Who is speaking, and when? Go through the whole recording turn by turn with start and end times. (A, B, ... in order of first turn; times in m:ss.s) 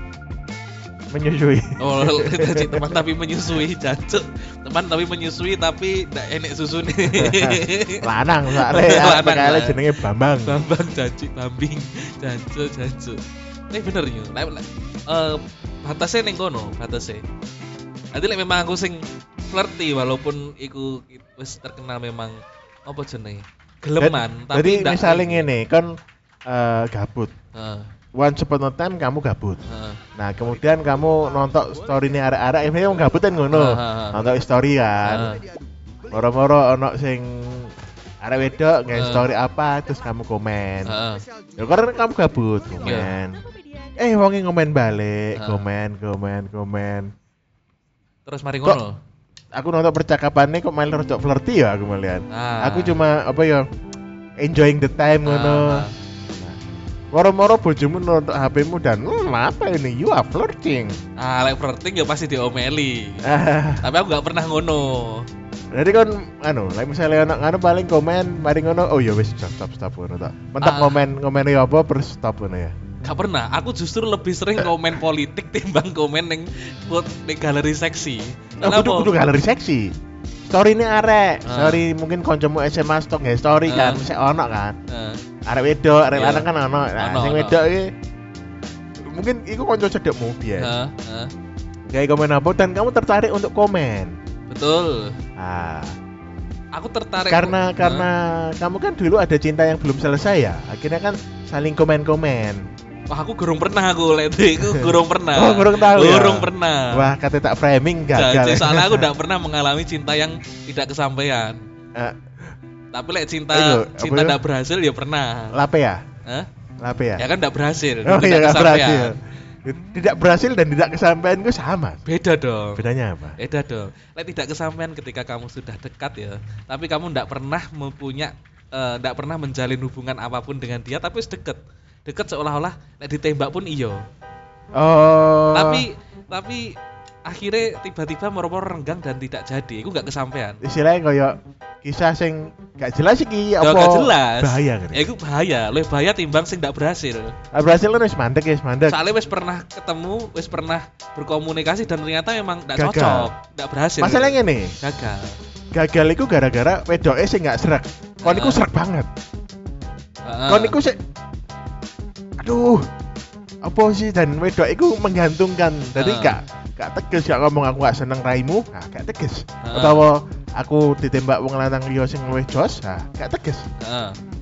0:01.1-0:03.0 A
0:01.8-0:17.2 B
0:07.1-0:10.6 A
0:18.1-0:25.5 B
0:24.0-0:27.3 A
0:27.5-0:27.9 B
0:28.1-0:29.6 A
0:29.7-0:30.0 B
0:30.2-0:35.3 A
0:33.5-0:34.3 B
0:35.0-0:35.4 B
0:36.1-0:41.0 A
0:38.9-0:39.2 B
0:40.8-0:41.2 B
0:41.6-0:47.1 A
0:42.8-0:43.1 B
0:45.3-0:45.7 B
0:48.2-0:49.0 B
0:49.5-0:53.7 A
0:52.3-0:53.0 B
0:54.4-0:56.6 A
0:55.2-0:55.9 B
0:57.1-1:01.0 A
1:01.2-1:05.3 B
1:03.2-1:03.9 A
1:05.7-1:12.8 A
1:10.6-1:11.1 B
1:13.0-1:19.2 B
1:18.6-1:19.9 A
1:20.4-1:24.8 A
1:21.4-1:21.8 B
1:23.7-1:24.0 B
1:24.9-1:25.2 B
1:25.4-1:27.9 A
1:26.1-1:27.6 B
1:29.0-1:30.7 A
1:30.6-1:31.3 B
1:31.9-1:34.2 A
1:34.5-1:35.2 B
1:35.4-1:36.0 A
1:36.7-1:38.1 B
1:37.3-1:42.6 A
1:43.1-1:47.1 B
1:44.6-1:49.1 A
1:48.1-1:51.6 B
1:51.9-1:52.3 A
1:52.9-1:55.6 B
1:53.5-1:54.4 A
1:55.5-1:56.0 A
1:56.8-1:57.3 A
1:57.2-1:59.2 B
1:58.0-2:02.0 A
2:02.0-2:02.9 B
2:02.8-2:03.4 A
2:03.4-2:14.0 B
2:14.7-2:15.8 A
2:15.5-2:20.6 B
2:20.6-2:25.0 A
2:23.6-2:27.4 B
2:27.5-2:29.0 A
2:28.9-2:35.4 B
2:32.7-2:33.3 A
2:34.0-2:34.7 A
2:35.7-2:39.1 A
2:38.2-2:38.6 B
2:40.2-2:40.8 B
2:40.5-2:41.0 A
2:42.4-2:42.8 A
2:43.6-2:53.6 A
2:45.9-2:46.4 B
2:49.6-2:50.0 B
2:53.8-2:54.2 B